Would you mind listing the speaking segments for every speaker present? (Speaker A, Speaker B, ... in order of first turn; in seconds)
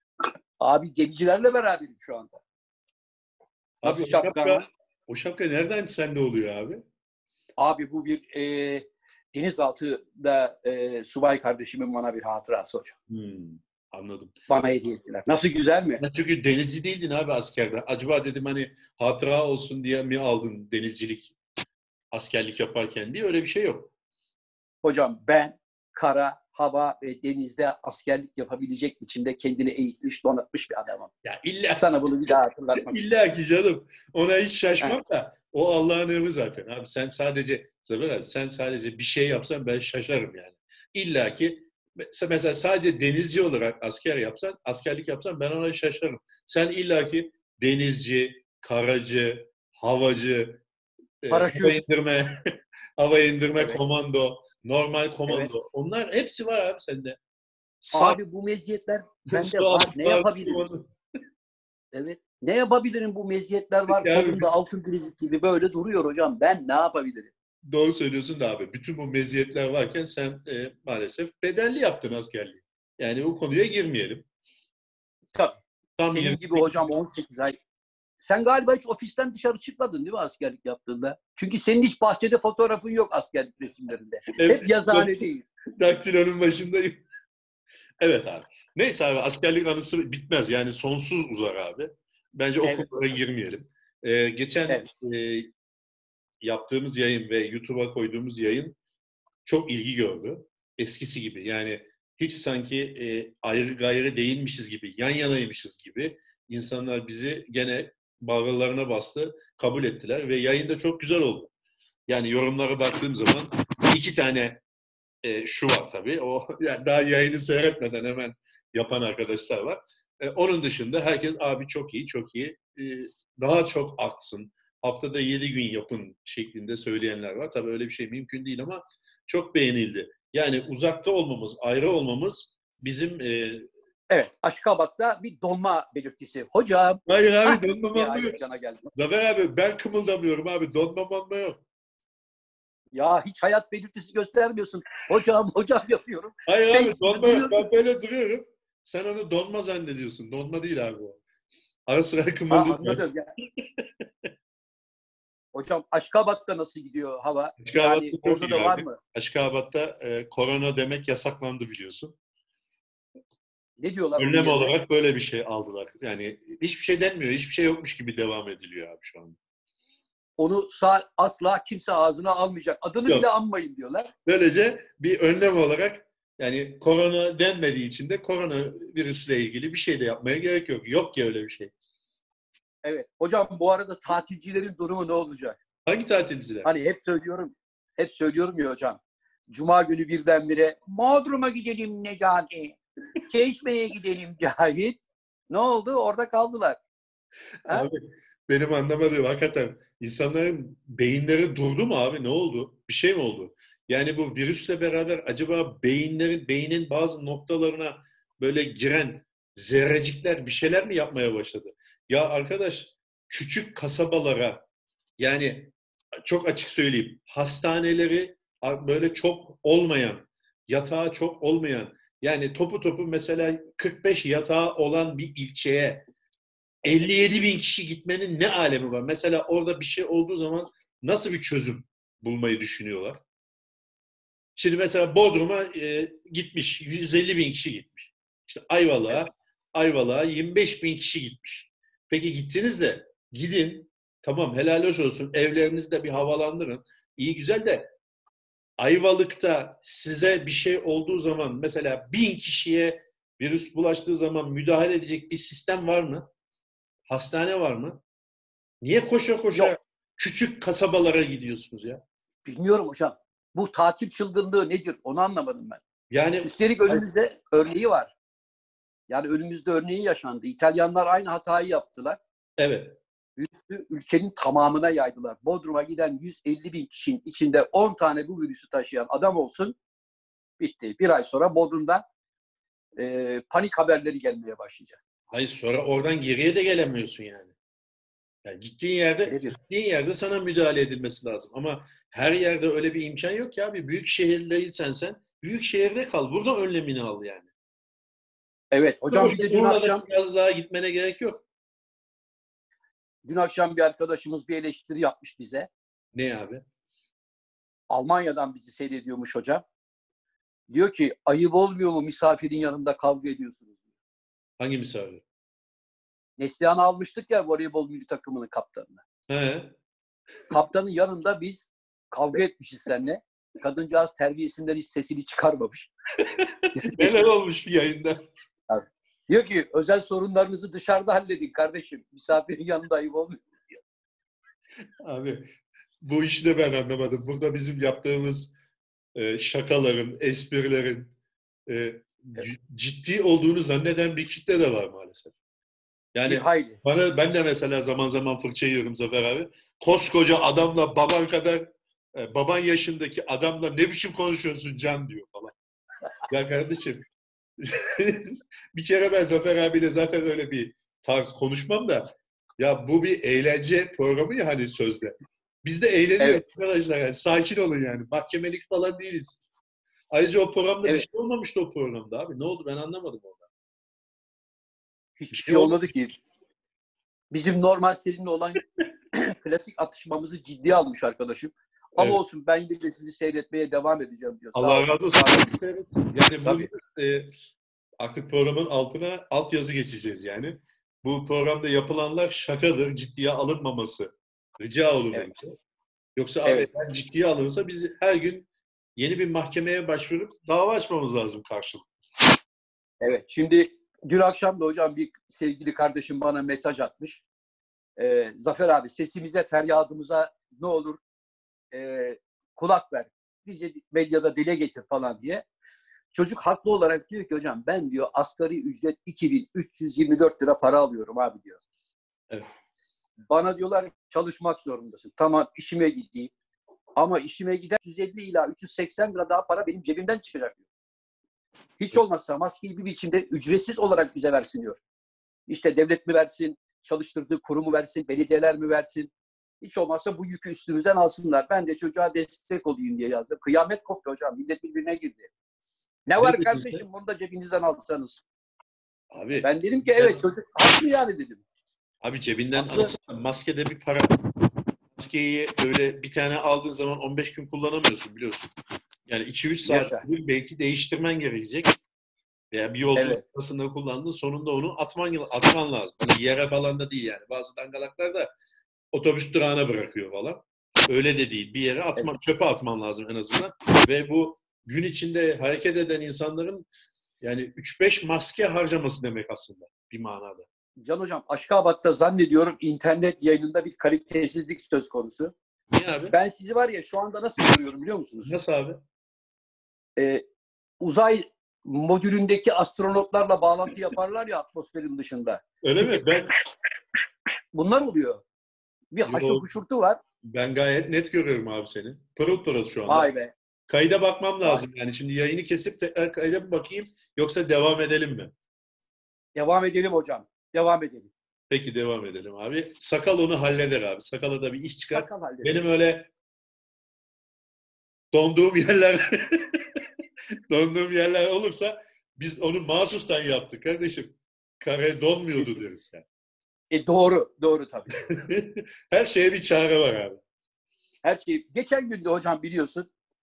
Speaker A: 0.6-2.4, 3.8-4.7, 7.6-12.9, 14.5-16.0, 24.8-31.1, 31.8-33.1, 51.3-51.8, 57.9-60.6, 61.9-67.3, 75.3-77.6, 78.2-85.4, 92.6-92.9, 134.1-138.9, 142.9-147.7, 152.5-153.3, 155.5-159.0, 163.8-164.7, 170.4-174.1, 182.8-185.6, 186.6-196.8, 262.4-265.8, 266.4-268.1, 269.1-272.2, 273.4-279.8, 280.6-282.0, 283.0-285.0, 289.3-289.6, 298.7-300.0, 303.2-305.7, 307.9-309.6, 310.7-313.8, 316.4-319.0, 320.5-325.9, 326.8-327.2, 328.7-333.4, 346.2-346.8, 366.2-366.4, 375.2-376.1, 377.3-378.6, 379.1-385.5, 386.4-386.7, 403.0-407.2, 408.0-411.0, 411.7-415.4, 416.1-421.6, 423.3-426.3, 426.9-430.6, 431.8-434.8, 435.5-445.3, 446.1-448.2, 449.4-451.4, 452.5-452.9, 459.6-460.0, 462.9-463.2, 480.8-485.3, 486.1-488.3, 490.0-490.2, 490.8-496.1, 497.5-498.2, 498.9-500.0, 502.9-503.3, 509.3-511.1, 514.9-515.6, 526.7-528.0, 531.0-532.9
Speaker B: 3.8-6.8, 13.1-14.4, 16.0-21.3, 22.1-23.9, 31.2-31.9, 32.7-50.6, 51.2-52.4, 53.0-57.2, 57.8-58.2, 59.3-60.9, 63.9-64.5, 67.6-74.2, 76.0-76.9, 84.3-85.2, 85.8-87.0, 88.0-95.5, 96.4-98.8, 99.4-111.5, 112.1-114.6, 115.2-133.7, 137.1-138.4, 138.9-141.6, 146.4-151.2, 151.9-153.0, 153.8-154.3, 157.6-162.2, 164.2-169.4, 174.2-181.7, 185.8-186.7, 197.7-214.6, 215.2-215.7, 216.2-226.1, 226.8-233.2, 234.6-247.9, 248.8-256.3, 257.1-258.0, 258.8-262.0, 266.1-267.0, 272.6-273.0, 285.3-287.5, 288.4-297.5, 299.1-301.4, 306.1-306.6, 314.6-315.2, 319.3-319.7, 326.2-328.1, 335.0-335.4, 336.0-338.5, 339.1-341.1, 341.7-345.3, 346.1-355.5, 356.3-357.0, 357.6-362.0, 362.6-369.4, 370.1-373.5, 375.3-375.9, 384.5-387.3, 388.0-395.5, 396.2-401.9, 446.2-446.8, 449.1-450.2, 452.0-454.1, 454.9-458.5, 459.1-461.8, 462.5-468.3, 468.9-476.7, 477.2-480.5, 485.7-486.1, 488.2-488.8, 495.6-496.3, 499.1-499.4, 500.2-503.1, 503.7-508.3, 511.5-516.1, 518.1-519.8, 520.5-526.0, 528.0-530.2